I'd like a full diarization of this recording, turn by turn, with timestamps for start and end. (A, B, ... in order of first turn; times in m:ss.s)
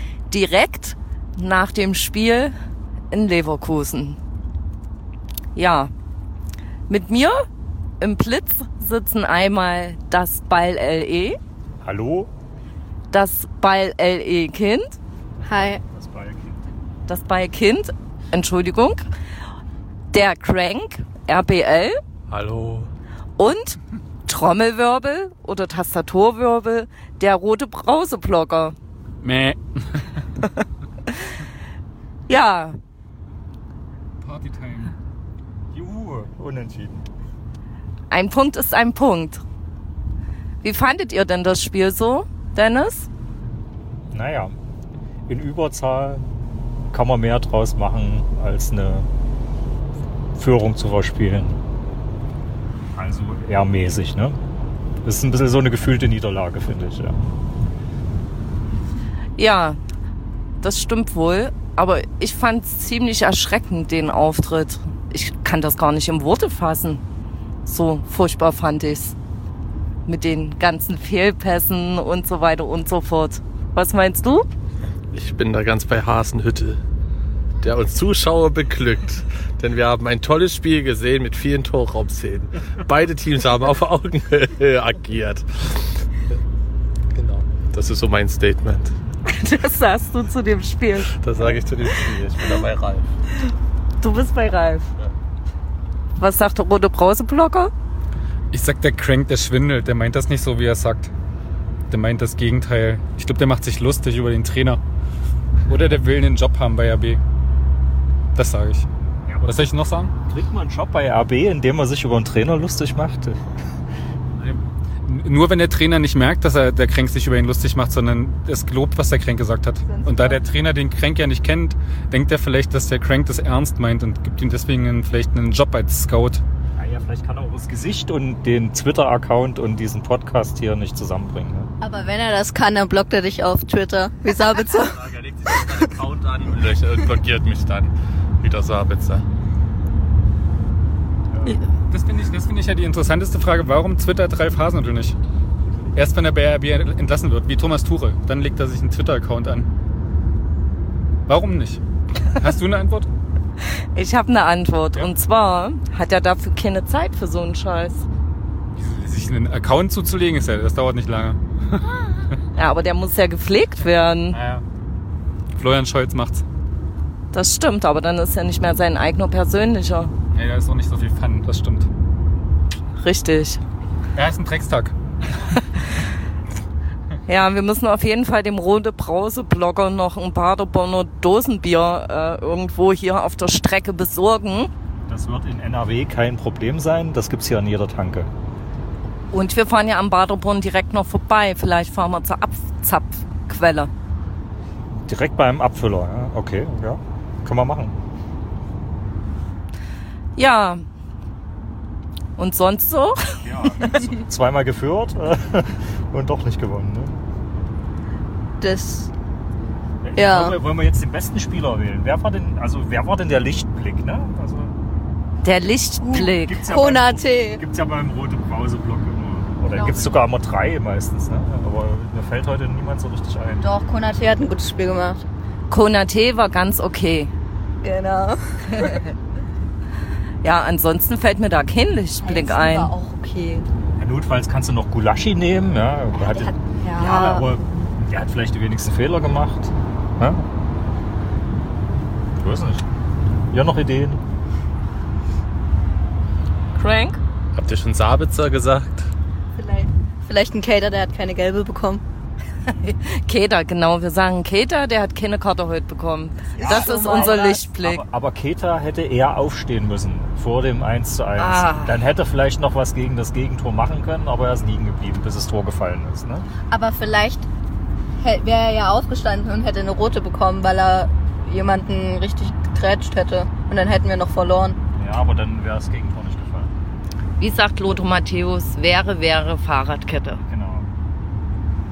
0:00.3-0:02.5 A
0:03.1-0:04.2 A
0:05.5-0:05.9 A
0:06.9-0:07.4 A
0:08.0-0:11.4 A
0:11.8-0:12.3 B
0:13.1-0:15.0 A
0:15.4-0:16.6 B
0:15.4-0:15.8 C
0:17.1-0:19.0 A
0:20.1-0:22.0 A
0:22.3-0:22.9 D
0:23.4-0:28.7 A
0:29.2-0:30.2 E
0:31.1-0:31.4 A
0:32.3-0:32.8 A
0:34.2-0:34.9 E
0:35.7-0:37.1 B
0:38.1-0:39.4 A
0:40.6-0:43.1 A
0:44.1-0:44.6 B
0:45.3-0:46.2 B
0:46.9-0:49.1 B
0:50.4-0:51.6 B
0:53.0-0:54.4 B
0:55.0-0:57.2 B
0:59.4-0:59.8 A
1:00.6-1:07.0 A
1:07.6-1:09.2 A
1:10.0-1:14.5 A
1:15.1-1:16.8 D
1:17.6-1:26.0 D
1:27.1-1:28.9 D
1:29.2-1:31.1 A
1:31.1-1:33.1 D
1:34.0-1:34.9 A
1:36.2-1:37.7 A
1:38.5-1:41.1 E
1:41.9-1:44.8 E
1:45.7-1:47.2 E
1:48.3-1:48.8 E
1:49.2-1:49.7 B
1:49.4-1:50.1 E
1:50.2-1:53.4 B
1:54.4-2:06.4 E
1:59.8-2:00.4 C
2:06.8-2:11.7 B
2:11.8-2:15.7 C
2:14.5-2:19.2 D
2:21.9-2:25.2 E
2:25.9-2:29.7 E
2:31.3-2:33.1 E
2:33.8-2:38.0 A
2:38.8-2:42.0 E
2:42.5-2:44.4 A
2:44.3-2:44.6 E
2:45.6-2:46.4 E
2:47.3-2:50.1 A
2:50.3-2:51.9 E
2:53.0-2:53.6 A
2:54.1-2:54.9 E
2:57.2-3:04.7 A
3:05.1-3:08.3 B
3:09.3-3:13.9 A
3:14.9-3:18.0 B
3:20.4-3:20.8 A
3:22.4-3:24.0 A
3:23.4-3:27.2 B
3:28.6-3:29.1 C
3:30.0-3:34.7 B
3:30.1-3:30.6 C
3:35.4-3:36.6 A
3:36.1-3:43.7 B
3:36.6-3:37.6 C
3:39.7-3:40.2 C
3:43.6-3:45.2 C
3:45.7-3:47.3 A
3:47.8-3:49.0 C
3:48.8-3:49.1 A
3:50.4-3:52.9 A
3:52.2-3:53.7 C
3:54.0-4:00.4 B
3:56.2-3:57.6 C
4:02.4-4:02.8 B
4:03.5-4:04.2 B
4:06.7-4:07.2 A
4:07.5-4:09.1 D
4:09.6-4:12.0 C
4:12.6-4:18.0 A
4:16.6-4:17.6 C
4:16.6-4:26.5 B
4:21.4-4:22.0 A
4:26.7-4:27.4 C
4:28.2-4:34.8 C
4:34.9-4:36.7 B
4:37.4-4:40.4 A
4:40.5-4:40.9 B